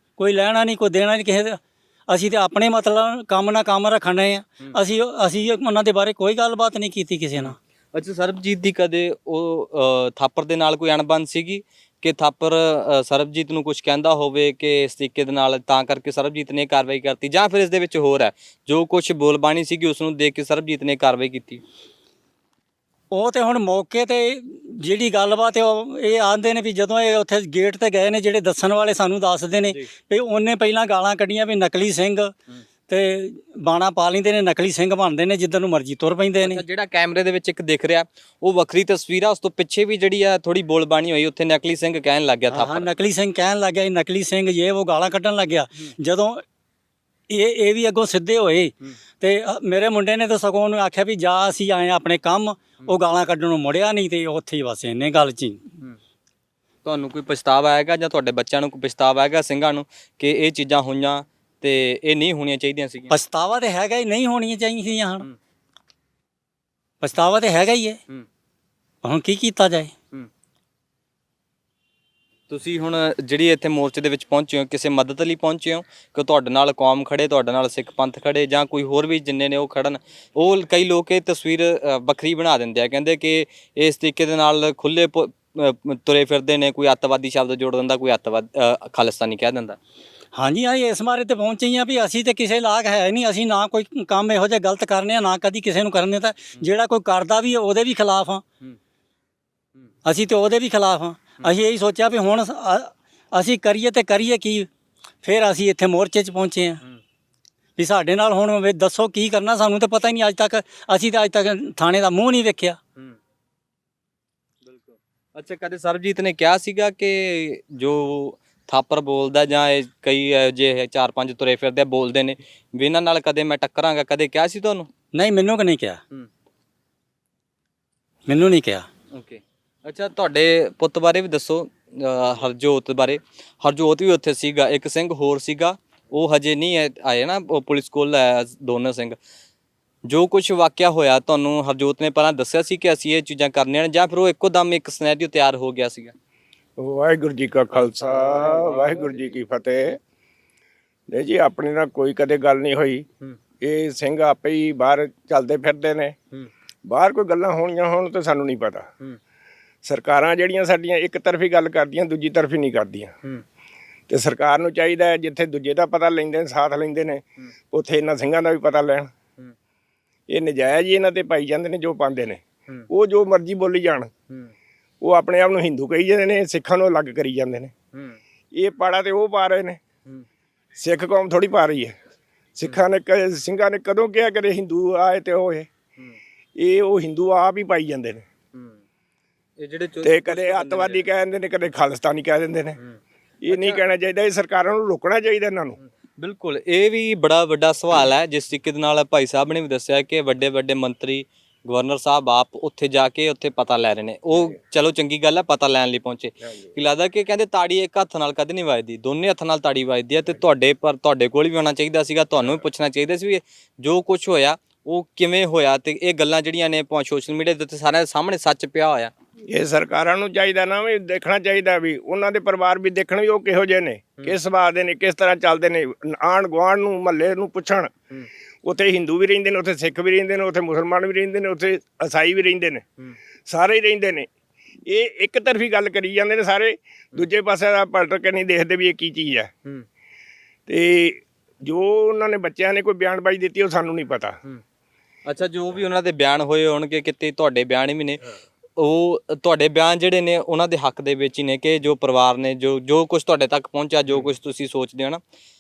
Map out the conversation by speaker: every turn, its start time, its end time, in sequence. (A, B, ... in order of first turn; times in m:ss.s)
0:00.2-0:07.5 A
0:07.4-0:21.6 B
0:23.1-0:32.3 A
0:32.9-0:36.6 A
0:36.4-0:42.9 B
0:42.5-0:46.4 A
0:47.3-0:55.7 A
0:56.8-1:03.1 B
1:03.1-1:05.2 A
1:07.0-1:08.0 A
1:09.0-1:09.9 A
1:12.5-1:29.8 B
1:30.3-1:38.4 A
1:40.0-1:44.7 A
1:45.2-1:46.8 A
1:47.8-1:52.8 A
1:54.6-2:04.9 B
2:05.1-2:06.0 A
2:08.3-2:08.9 A
2:09.1-2:19.2 B
2:20.0-2:26.1 B
2:26.8-2:30.0 C
2:27.7-2:29.3 B
2:31.1-2:33.1 C
2:33.6-2:36.2 C
2:36.9-2:38.9 C
2:39.8-2:43.1 C
2:44.1-2:49.1 C
2:50.3-2:54.1 C
2:55.0-2:57.7 C
2:57.9-2:58.2 B
2:58.5-2:59.8 C
3:00.8-3:02.0 C
3:02.6-3:05.7 C
3:06.6-3:08.2 C
3:08.5-3:08.8 B
3:09.6-3:11.1 B
3:10.0-3:12.8 C
3:13.4-3:15.8 C
3:13.5-3:13.8 B
3:16.2-3:39.1 B
3:39.5-3:47.9 C
3:48.6-3:52.8 C
3:53.5-3:54.3 C
3:54.8-3:59.5 C
4:00.7-4:04.4 C
4:05.2-4:08.2 B
4:08.8-4:15.2 B